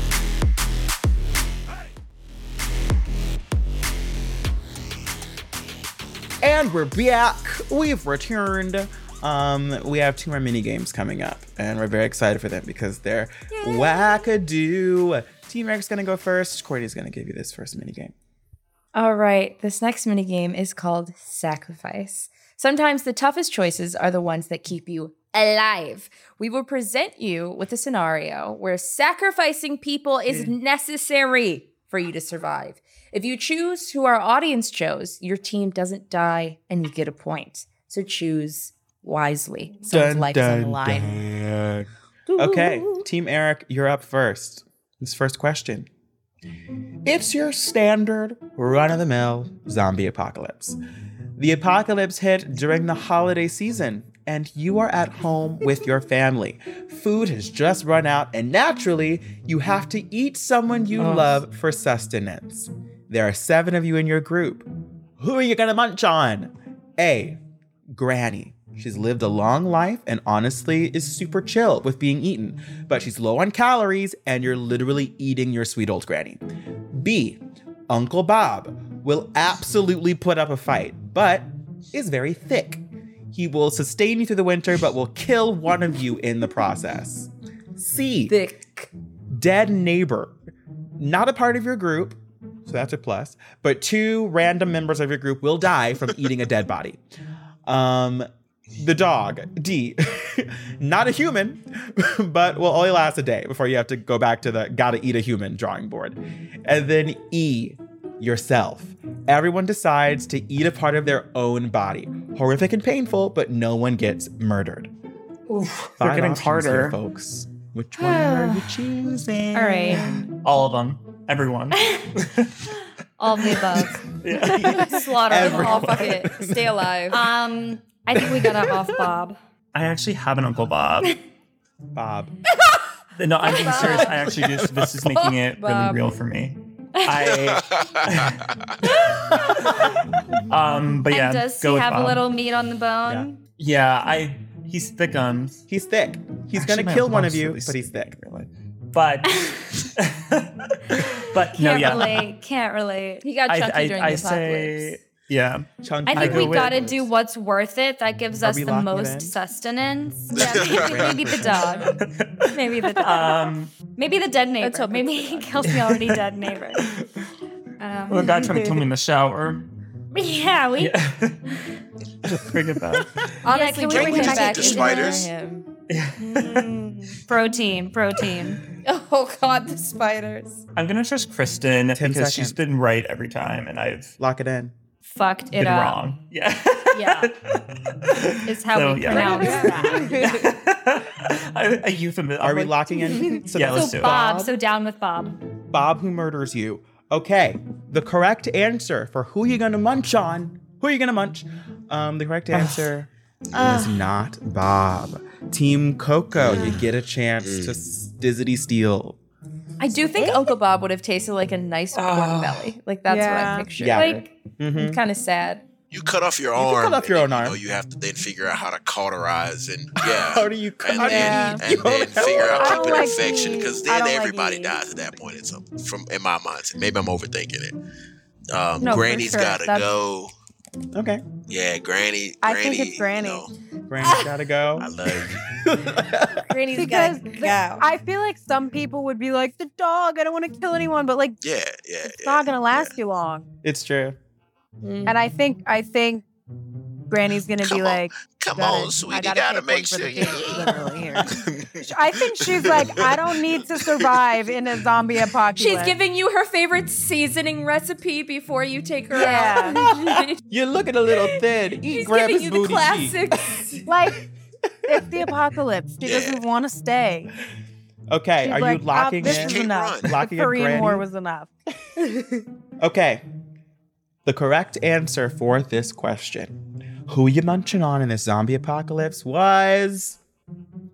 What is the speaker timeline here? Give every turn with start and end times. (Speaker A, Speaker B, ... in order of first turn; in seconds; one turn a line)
Speaker A: 6.4-18.1
Speaker B: 13.7-14.1
Speaker C: 18.9-41.2
Speaker A: 39.9-45.9
Speaker C: 42.3-43.0
Speaker A: 47.0-50.8
Speaker A: 51.4-64.7
Speaker D: 61.0-61.4
Speaker A: 65.2-67.4
Speaker A: 67.9-88.3
Speaker C: 88.3-88.9
Speaker A: 89.3-90.3
Speaker A: 91.0-97.0
Speaker A: 97.7-114.9
Speaker D: 115.5-117.0
Speaker A: 116.0-120.0
Speaker D: 118.0-118.8
Speaker B: 119.5-120.2
Speaker D: 119.9-122.7
Speaker B: 121.7-122.1
Speaker B: 123.2-126.2
Speaker D: 123.4-125.0
Speaker A: 124.5-126.8
Speaker C: 125.3-127.2
Speaker B: 127.1-129.4
Speaker A: 128.2-128.4
Speaker D: 129.7-131.2
Speaker A: 131.9-132.3
Speaker D: 133.1-138.4
Speaker C: 133.5-134.1
Speaker B: 133.6-134.0
Speaker A: 134.4-134.9
Speaker C: 135.1-136.0
Speaker B: 137.0-137.2
Speaker E: 137.5-138.3
Speaker B: 139.1-139.8
Speaker D: 140.5-142.3
Speaker B: 141.1-143.4
Speaker D: 143.6-145.6
Speaker A: 145.7-148.2
Speaker D: 146.5-152.3
Speaker B: 150.9-153.4
Speaker C: 153.2-154.9
Speaker D: 153.5-156.9
Speaker A: 155.8-157.1
Speaker B: 156.0-162.0
Speaker A: 158.4-159.3
Speaker E: 160.3-161.2
Speaker A: 160.4-161.9
Speaker D: 161.4-163.9
Speaker B: 162.5-166.8
Speaker C: 164.6-165.5
Speaker D: 165.6-167.1
Speaker B: 167.8-168.8
Speaker D: 168.1-169.6
Speaker B: 170.1-170.9
Speaker D: 170.8-171.4
Speaker D: 172.2-173.3
Speaker C: 173.4-175.7
Speaker B: 173.4-175.3
Speaker E: 173.9-175.3
Speaker D: 175.9-176.7
Speaker C: 176.3-176.7
Speaker B: 177.2-178.6
Speaker C: 178.8-180.6
Speaker D: 180.8-184.1
Speaker A: 181.9-182.6
Speaker A: 184.2-184.7
Speaker B: 185.1-186.0
Speaker D: 185.5-194.2
Speaker B: 186.9-187.3
Speaker B: 188.5-190.4
Speaker C: 189.1-190.4
Speaker F: 189.2-190.0
Speaker A: 192.4-194.5
Speaker B: 193.3-195.4
Speaker A: 195.7-209.2
Speaker D: 202.5-202.9
Speaker E: 206.3-206.8
Speaker E: 207.4-207.8
Speaker C: 209.8-215.7
Speaker D: 211.9-212.7
Speaker F: 213.1-213.7
Speaker A: 213.8-215.0
Speaker B: 213.9-214.3
Speaker E: 215.9-227.7
Speaker A: 216.6-217.6
Speaker A: 220.0-223.1
Speaker F: 221.0-221.6
Speaker F: 222.2-224.8
Speaker E: 228.5-230.3
Speaker F: 228.8-229.9
Speaker A: 230.9-231.2
Speaker E: 231.5-233.5
Speaker F: 232.4-233.5
Speaker A: 233.9-236.5
Speaker E: 234.8-235.5
Speaker C: 236.5-237.9
Speaker F: 236.7-241.4
Speaker E: 241.4-242.9
Speaker F: 242.1-243.4
Speaker A: 243.6-244.2
Speaker C: 244.8-245.2
Speaker F: 245.1-246.2
Speaker F: 247.1-255.9
Speaker E: 247.6-254.2
Speaker C: 255.6-260.4
Speaker F: 259.1-259.8
Speaker A: 259.6-263.2
Speaker C: 261.8-263.8
Speaker F: 263.9-264.2
Speaker F: 264.9-267.3
Speaker A: 264.9-265.2
Speaker E: 266.0-266.4
Speaker A: 268.1-271.1
Speaker F: 268.4-271.5
Speaker E: 269.2-270.1
Speaker A: 272.8-273.2
Speaker A: 274.2-276.6
Speaker A: 277.1-280.2